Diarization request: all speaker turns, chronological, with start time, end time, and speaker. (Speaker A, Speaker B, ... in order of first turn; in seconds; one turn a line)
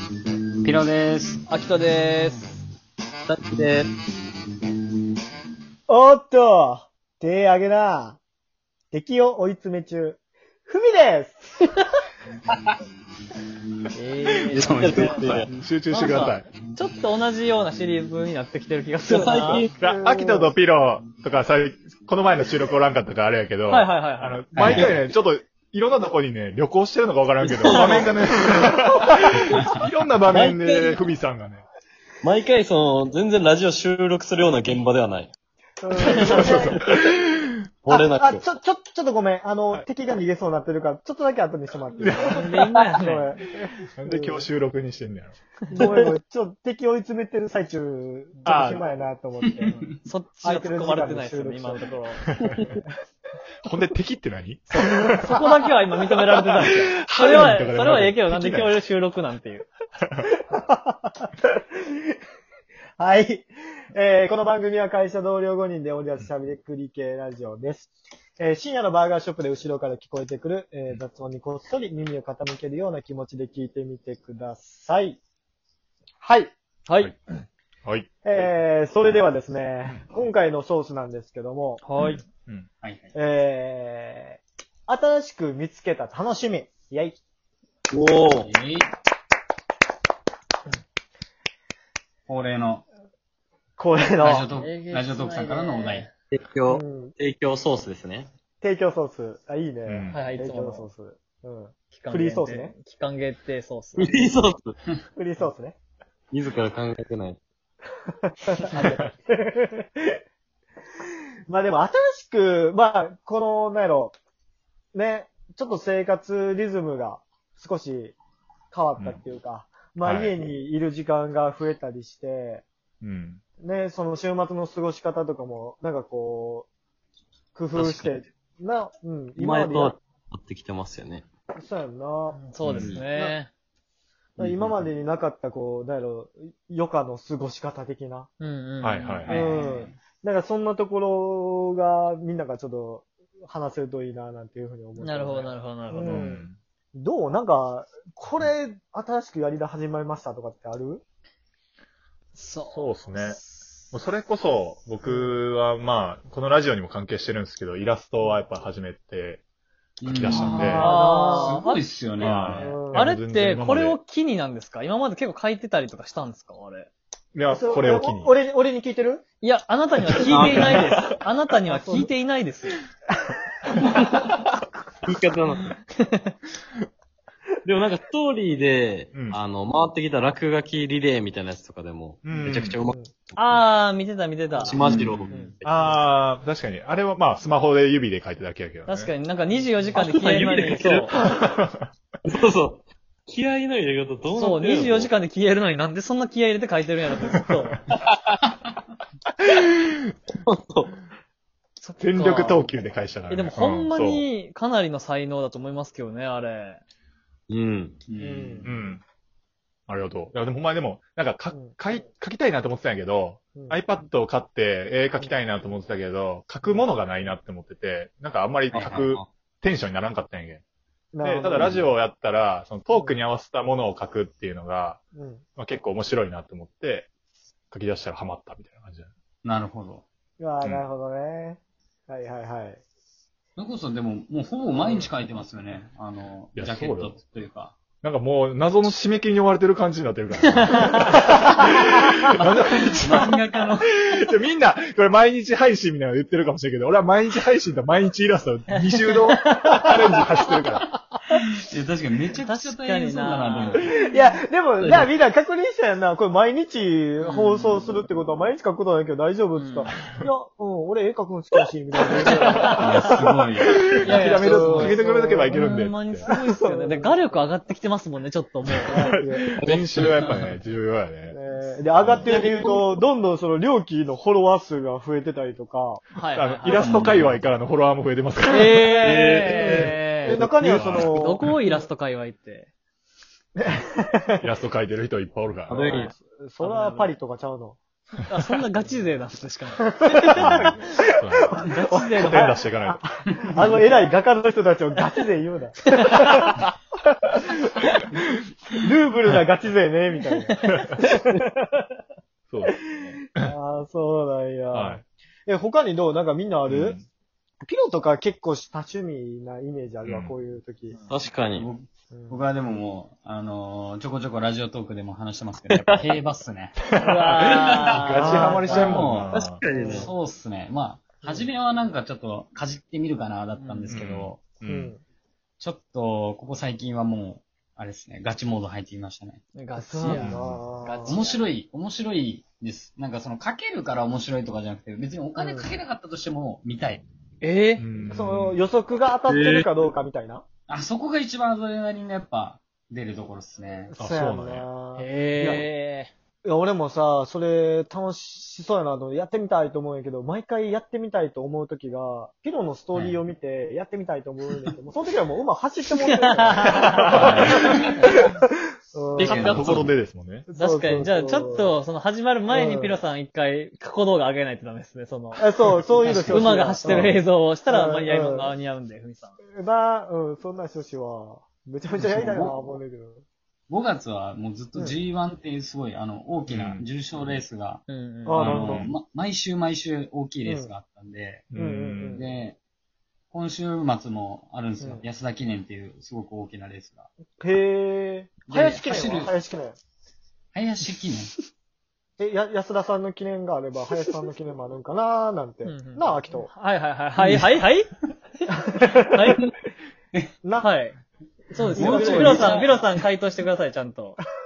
Speaker A: 0.6-1.4
Speaker B: 1.5-2.6
Speaker C: 3.3-3.9
Speaker D: 5.9-8.2
Speaker D: 8.9-11.8
Speaker B: 13.9-15.3
Speaker C: 14.5-15.5
Speaker A: 14.5-15.5
Speaker E: 15.5-16.5
Speaker B: 15.9-19.7
Speaker C: 19.1-19.8
Speaker E: 19.8-31.6
Speaker D: 19.8-20.6
Speaker B: 23.7-24.4
Speaker A: 24.5-24.9
Speaker C: 24.6-25.1
Speaker C: 27.4-28.6
Speaker B: 27.8-28.0
Speaker C: 30.3-31.1
Speaker C: 32.2-35.3
Speaker D: 35.8-36.8
Speaker C: 36.1-36.5
Speaker E: 36.3-37.5
Speaker C: 37.8-38.5
Speaker D: 37.9-42.5
Speaker E: 42.0-42.6
Speaker B: 42.2-43.4
Speaker D: 43.0-44.5
Speaker E: 43.6-45.4
Speaker D: 45.7-49.8
Speaker C: 45.8-46.1
Speaker E: 48.5-48.8
Speaker A: 49.4-49.8
Speaker B: 49.7-52.3
Speaker D: 50.4-51.9
Speaker E: 53.7-55.3
Speaker D: 54.8-55.4
Speaker B: 55.2-59.7
Speaker E: 56.8-58.7
Speaker D: 60.5-61.3
Speaker D: 63.0-75.2
Speaker D: 76.2-76.5
Speaker B: 76.9-77.1
Speaker D: 78.2-81.8
Speaker B: 81.8-82.2
Speaker E: 82.0-82.7
Speaker A: 82.8-83.1
Speaker D: 83.1-87.2
Speaker C: 87.9-88.5
Speaker A: 88.4-88.9
Speaker A: 92.3-92.8
Speaker D: 93.8-94.5
Speaker A: 94.2-96.1
Speaker B: 94.5-96.1
Speaker C: 96.3-98.3
Speaker D: 96.7-97.2
Speaker D: 98.6-102.7
Speaker E: 99.9-100.3
Speaker B: 100.1-100.9
Speaker B: 101.9-104.3
Speaker C: 104.0-104.8
Speaker D: 105.1-105.8
Speaker C: 106.3-107.4
Speaker D: 108.3-110.2
Speaker D: 111.5-114.1
Speaker D: 114.9-118.2
Speaker D: 118.7-122.6
Speaker E: 120.0-120.4
Speaker E: 123.0-123.4
Speaker D: 123.6-126.7
Speaker D: 127.5-130.0
Speaker C: 127.8-128.2
Speaker C: 129.4-131.2
Speaker D: 131.6-132.4
Speaker B: 132.3-133.5
Speaker E: 132.6-132.9
Speaker C: 132.8-133.4
Speaker D: 134.4-138.3
Speaker C: 134.4-134.9
Speaker B: 138.4-139.2
Speaker E: 138.8-139.4
Speaker A: 139.2-140.0
Speaker D: 139.3-151.0
Speaker B: 145.0-146.4
Speaker E: 146.0-146.6
Speaker B: 152.3-153.8
Speaker E: 152.7-153.4
Speaker E: 153.9-159.4
Speaker D: 155.0-155.4
Speaker A: 160.0-162.8
Speaker E: 160.0-160.9
Speaker B: 160.3-161.8
Speaker D: 160.6-161.6
Speaker E: 162.2-164.0
Speaker D: 162.2-163.1
Speaker B: 162.9-166.9
Speaker E: 167.3-168.3
Speaker D: 167.5-169.2
Speaker B: 169.4-172.8
Speaker C: 170.2-171.0
Speaker D: 171.7-172.1
Speaker C: 173.9-175.7
Speaker C: 177.6-183.6
Speaker E: 179.1-179.4
Speaker E: 182.2-182.8
Speaker B: 183.3-184.8
Speaker C: 184.5-186.1
Speaker E: 184.8-189.1
Speaker B: 188.9-191.1
Speaker D: 189.5-189.9
Speaker C: 189.9-191.5
Speaker E: 191.4-191.9
Speaker C: 192.2-195.1
Speaker B: 194.3-197.8
Speaker C: 198.1-198.3
Speaker E: 199.4-199.8
Speaker C: 200.4-200.9
Speaker B: 201.8-202.6
Speaker E: 202.0-204.3
Speaker B: 203.3-206.8
Speaker C: 207.5-208.0
Speaker A: 208.1-208.7
Speaker D: 208.2-208.7
Speaker E: 208.6-209.0
Speaker E: 209.9-220.6
Speaker D: 211.5-211.8
Speaker D: 213.5-213.8
Speaker D: 216.6-216.9
Speaker C: 218.7-219.3
Speaker D: 221.1-221.9
Speaker E: 221.2-225.0
Speaker D: 222.9-223.2
Speaker D: 225.1-225.5
Speaker E: 225.5-227.1
Speaker E: 227.7-229.1
Speaker A: 229.4-230.0
Speaker D: 230.4-232.8
Speaker E: 230.6-230.9
Speaker A: 233.6-237.8
Speaker D: 234.7-235.1
Speaker E: 236.6-237.2
Speaker E: 238.0-243.4
Speaker B: 240.6-241.2
Speaker A: 242.4-244.2
Speaker E: 243.9-250.9
Speaker B: 249.3-249.9
Speaker D: 249.6-250.5
Speaker A: 251.3-253.9
Speaker B: 252.4-253.9
Speaker D: 253.7-263.1
Speaker C: 254.8-255.1
Speaker B: 257.4-257.8
Speaker B: 259.6-259.9
Speaker B: 262.2-262.9
Speaker E: 262.5-262.8
Speaker A: 262.8-263.9
Speaker E: 263.7-266.2
Speaker B: 264.0-269.2
Speaker D: 264.2-265.6
Speaker D: 266.2-267.4
Speaker D: 268.9-269.6
Speaker E: 268.9-271.4
Speaker C: 269.6-270.5
Speaker D: 271.3-276.1
Speaker E: 272.0-272.2
Speaker C: 272.2-272.9
Speaker B: 276.1-277.1
Speaker E: 276.3-279.0
Speaker A: 276.7-277.4
Speaker B: 278.4-282.7
Speaker C: 279.0-280.7
Speaker D: 279.5-281.8
Speaker E: 280.6-281.4
Speaker D: 283.6-284.5
Speaker E: 284.4-286.0
Speaker C: 285.7-286.1
Speaker B: 285.7-286.1
Speaker D: 285.9-287.8
Speaker B: 286.6-287.1
Speaker B: 288.3-290.8
Speaker D: 289.9-296.5
Speaker E: 290.3-291.6
Speaker B: 291.6-292.6
Speaker E: 292.1-293.0
Speaker B: 295.9-296.6
Speaker D: 298.7-301.9
Speaker E: 300.7-300.9
Speaker E: 302.5-303.5
Speaker D: 302.6-307.0
Speaker E: 304.7-305.0
Speaker E: 306.7-307.1
Speaker D: 307.6-311.0
Speaker E: 310.1-310.4
Speaker C: 311.1-311.7
Speaker A: 311.6-316.8
Speaker D: 312.1-312.4
Speaker C: 315.7-316.0
Speaker E: 316.8-319.6
Speaker B: 317.0-319.1
Speaker A: 317.4-324.4
Speaker D: 318.2-318.9
Speaker C: 319.3-320.1
Speaker D: 319.7-320.1
Speaker D: 321.2-321.5
Speaker B: 323.6-323.9
Speaker E: 323.9-324.9
Speaker D: 324.6-325.0
Speaker A: 325.6-329.4
Speaker B: 329.6-331.4
Speaker D: 329.8-331.2
Speaker E: 330.1-330.6
Speaker A: 331.1-337.0
Speaker D: 335.4-335.7
Speaker B: 337.4-337.8
Speaker E: 337.8-338.6
Speaker D: 338.1-340.4
Speaker C: 339.2-339.7
Speaker A: 340.7-343.9
Speaker D: 343.9-345.6
Speaker E: 344.0-344.7
Speaker B: 345.0-346.1
Speaker D: 346.4-357.9
Speaker A: 352.9-353.2
Speaker B: 356.1-357.3
Speaker E: 357.0-357.6
Speaker A: 357.1-357.9
Speaker B: 357.9-358.2
Speaker D: 358.4-359.8
Speaker A: 359.2-359.9
Speaker E: 359.2-360.5
Speaker D: 360.5-361.7
Speaker B: 360.6-365.4
Speaker D: 362.5-363.0
Speaker D: 365.4-367.1
Speaker A: 366.0-366.6
Speaker B: 366.3-369.4
Speaker E: 366.9-367.2
Speaker D: 367.6-368.6
Speaker D: 369.5-373.2
Speaker A: 372.0-372.5
Speaker A: 373.7-377.8
Speaker E: 376.5-376.8
Speaker B: 377.9-378.6
Speaker D: 378.2-378.9
Speaker A: 378.4-381.4
Speaker E: 378.4-378.9
Speaker D: 380.4-380.7
Speaker E: 381.5-382.2
Speaker D: 381.6-382.3
Speaker A: 382.1-382.6
Speaker A: 383.3-387.1
Speaker D: 387.4-389.8
Speaker A: 388.4-389.3
Speaker A: 390.5-391.3
Speaker D: 392.2-396.5
Speaker B: 395.6-397.9
Speaker A: 397.2-397.6
Speaker D: 398.5-399.4
Speaker B: 398.9-399.4
Speaker D: 400.4-400.7
Speaker B: 400.6-401.0
Speaker B: 401.5-404.2
Speaker D: 401.6-402.8
Speaker A: 401.6-402.9